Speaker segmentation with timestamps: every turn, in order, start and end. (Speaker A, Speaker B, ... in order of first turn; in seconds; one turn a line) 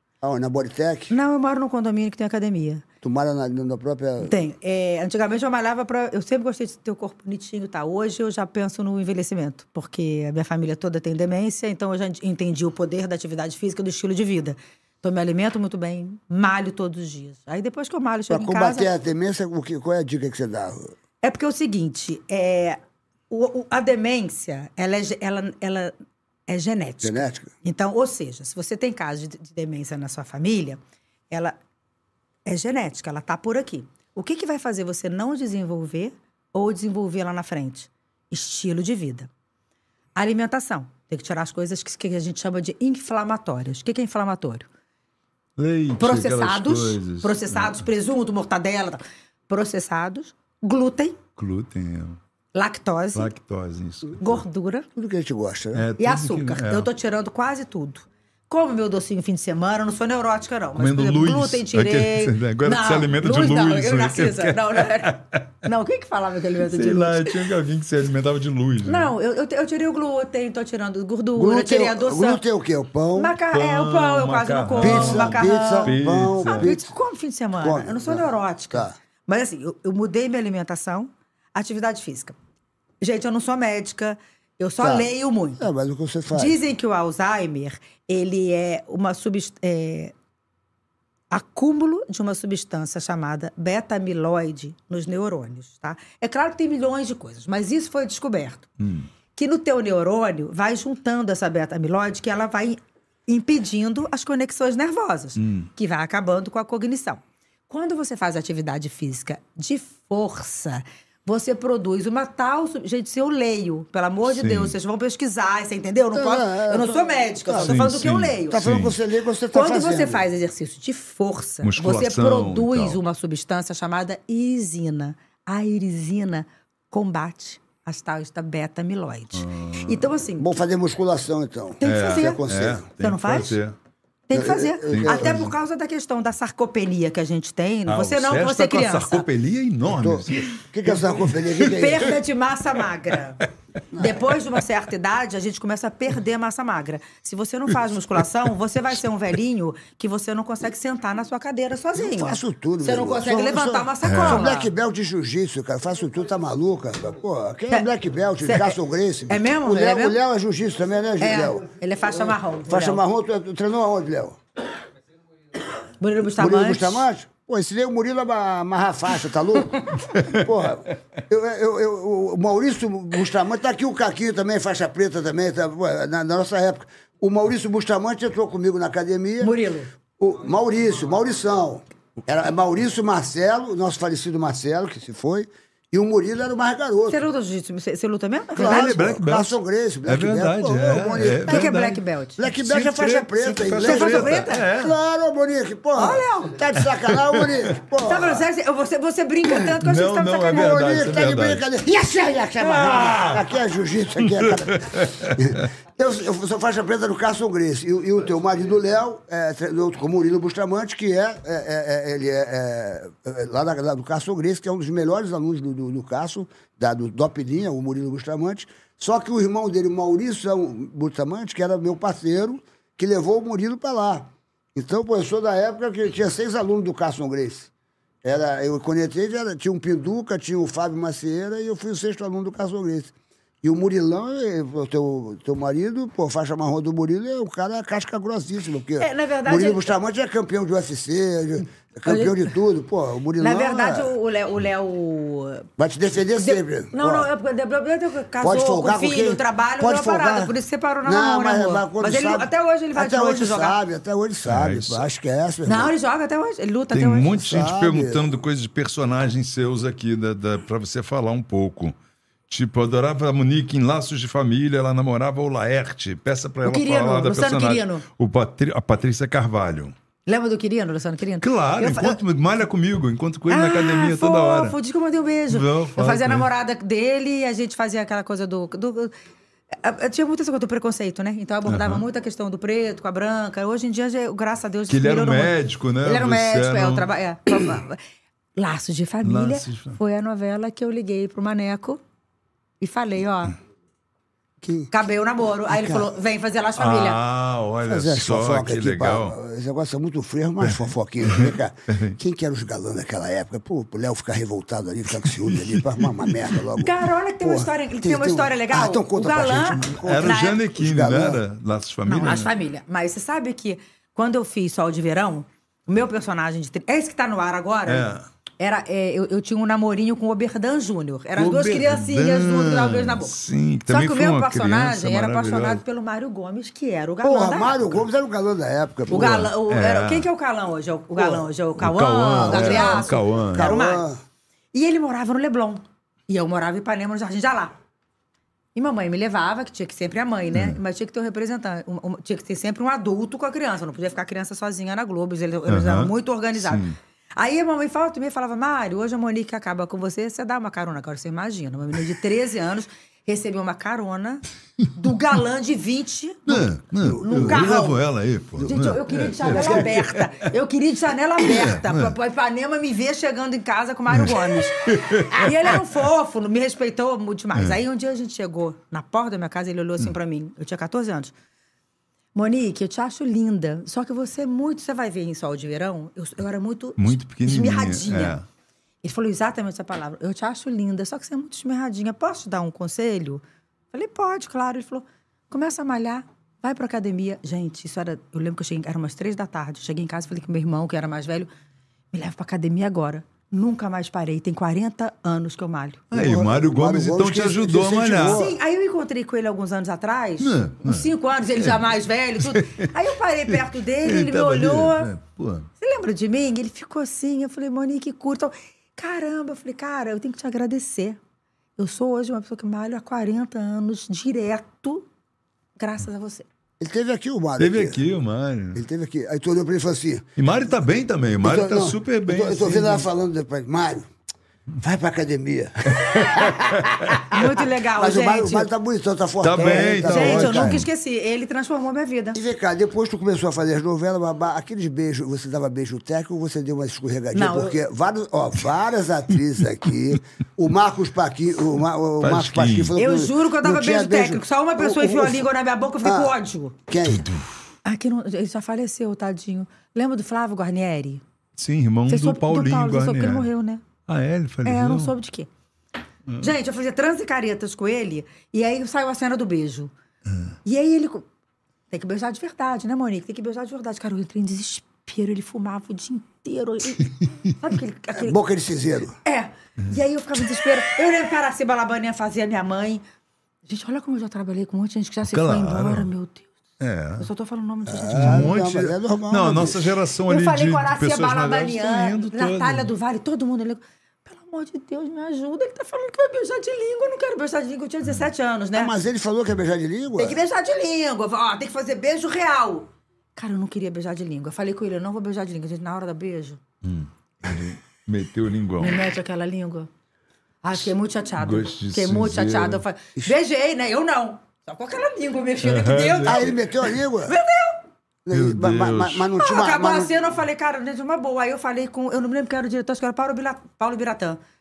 Speaker A: 0.2-1.1
Speaker B: 1.1-2.8
Speaker A: 3.0-4.3
Speaker B: 4.2-18.9
Speaker A: 18.3-20.9
Speaker B: 21.2-22.8
Speaker B: 23.3-25.9
Speaker B: 26.5-30.8
Speaker A: 27.0-27.5
Speaker B: 31.3-31.6
Speaker B: 32.5-39.3
Speaker B: 40.1-44.7
Speaker C: 45.6-47.8
Speaker B: 46.0-51.2
Speaker C: 51.4-52.2
Speaker B: 52.5-53.3
Speaker C: 53.1-54.4
Speaker B: 54.2-54.9
Speaker A: 55.0-55.9
Speaker C: 55.7-56.9
Speaker B: 56.0-67.5
Speaker C: 60.8-65.5
Speaker C: 66.6-69.1
Speaker B: 68.8-72.4
Speaker A: 71.3-73.3
Speaker B: 73.1-82.3
Speaker C: 73.5-76.7
Speaker A: 74.8-76.9
Speaker A: 77.6-78.9
Speaker B: 83.0-85.6
Speaker A: 84.8-86.6
Speaker B: 86.3-90.1
Speaker B: 91.3-98.7
Speaker C: 98.8-99.1
Speaker B: 99.3-118.6
Speaker C: 105.4-105.7
Speaker C: 114.3-114.7
Speaker A: 116.1-120.2
Speaker C: 117.6-119.0
Speaker B: 119.5-130.5
Speaker C: 121.6-123.0
Speaker C: 129.3-130.1
Speaker A: 130.4-132.9
Speaker B: 131.8-132.4
Speaker C: 131.8-133.7
Speaker B: 133.0-133.6
Speaker B: 134.3-139.2
Speaker A: 134.3-135.5
Speaker C: 134.9-135.5
Speaker C: 137.9-141.7
Speaker A: 139.8-142.2
Speaker B: 141.6-143.4
Speaker A: 143.9-144.2
Speaker B: 143.9-154.7
Speaker A: 151.9-161.6
Speaker C: 154.0-154.4
Speaker B: 158.4-158.7
Speaker B: 159.3-160.2
Speaker B: 161.2-163.0
Speaker A: 162.7-164.4
Speaker B: 166.0-167.0
Speaker A: 166.4-179.5
Speaker C: 170.1-170.4
Speaker B: 179.4-179.9
Speaker A: 180.2-187.2
Speaker B: 187.1-189.0
Speaker A: 188.5-191.7
Speaker C: 188.6-194.9
Speaker B: 191.4-192.4
Speaker A: 192.4-198.4
Speaker B: 193.7-194.7
Speaker B: 195.9-196.6
Speaker B: 198.0-200.8
Speaker C: 199.5-201.6
Speaker A: 200.5-227.7
Speaker C: 202.6-203.5
Speaker C: 204.2-205.6
Speaker A: 228.2-244.1
Speaker B: 239.0-239.9
Speaker B: 242.1-242.5
Speaker B: 243.4-245.7
Speaker A: 245.8-247.3
Speaker B: 246.4-253.8
Speaker A: 248.4-255.9
Speaker C: 254.4-255.0
Speaker B: 255.6-257.7
Speaker C: 256.9-261.9
Speaker A: 257.5-258.3
Speaker C: 262.5-269.9
Speaker B: 266.6-268.0
Speaker B: 270.3-272.2
Speaker C: 271.4-274.8
Speaker B: 273.5-279.1
Speaker C: 275.5-276.5
Speaker B: 279.7-288.0
Speaker C: 281.7-282.0
Speaker C: 284.9-287.1
Speaker B: 288.6-292.0
Speaker C: 289.2-290.0
Speaker B: 292.8-293.6
Speaker A: 294.6-294.9
Speaker B: 294.9-297.2
Speaker A: 295.7-296.1
Speaker C: 296.8-299.4
Speaker A: 297.9-311.4
Speaker C: 300.6-302.1
Speaker B: 306.8-310.6
Speaker C: 309.9-312.5
Speaker B: 312.1-323.4
Speaker C: 317.9-318.2
Speaker C: 321.4-325.8
Speaker B: 323.9-328.0
Speaker A: 327.2-329.4
Speaker B: 329.1-334.1
Speaker C: 329.1-330.3
Speaker A: 331.1-331.4
Speaker C: 331.8-333.7
Speaker A: 332.5-334.2
Speaker B: 334.7-337.7
Speaker B: 338.7-346.8
Speaker C: 345.7-346.9
Speaker B: 347.4-356.6
Speaker C: 356.5-360.4
Speaker A: 357.0-357.8
Speaker B: 357.2-358.0
Speaker B: 358.6-371.3
Speaker A: 359.4-359.9
Speaker C: 361.4-362.1
Speaker C: 364.1-365.7
Speaker B: 372.3-378.4
Speaker C: 377.0-378.4
Speaker B: 379.0-391.5
Speaker B: 392.1-396.0
Speaker C: 396.1-398.4
Speaker A: 396.1-398.6
Speaker B: 398.2-405.1
Speaker C: 400.4-401.7
Speaker C: 402.4-402.9
Speaker C: 403.5-405.7
Speaker B: 405.8-411.2
Speaker B: 411.8-415.1
Speaker B: 415.8-416.5
Speaker A: 416.8-418.0
Speaker C: 417.6-418.8
Speaker A: 418.7-420.3
Speaker C: 420.4-423.1
Speaker A: 421.4-424.1
Speaker A: 424.8-430.8
Speaker C: 426.2-426.9
Speaker B: 427.3-428.7
Speaker C: 429.4-430.9
Speaker B: 429.6-432.4
Speaker A: 432.3-445.5
Speaker B: 437.3-437.8
Speaker C: 442.2-442.9
Speaker B: 442.9-446.8
Speaker A: 446.0-446.3
Speaker A: 446.9-447.3
Speaker C: 447.1-447.4
Speaker B: 447.8-451.2
Speaker C: 451.6-453.5
Speaker B: 452.1-453.8
Speaker C: 454.1-455.1
Speaker B: 454.6-455.5
Speaker B: 456.4-459.9
Speaker B: 460.6-461.2
Speaker B: 461.9-468.4
Speaker A: 468.1-469.1
Speaker B: 469.2-473.0
Speaker B: 473.6-476.5
Speaker C: 475.3-476.1
Speaker C: 476.8-477.3
Speaker B: 477.2-478.5
Speaker A: 477.9-479.9
Speaker C: 478.1-482.9
Speaker B: 480.3-488.9
Speaker A: 488.7-490.4
Speaker B: 490.2-496.6
Speaker C: 496.8-499.0
Speaker B: 498.8-499.9
Speaker B: 500.6-507.8
Speaker C: 501.4-502.8
Speaker C: 505.6-506.5
Speaker A: 506.2-507.4
Speaker A: 508.2-510.1
Speaker C: 508.3-509.2
Speaker B: 509.4-514.4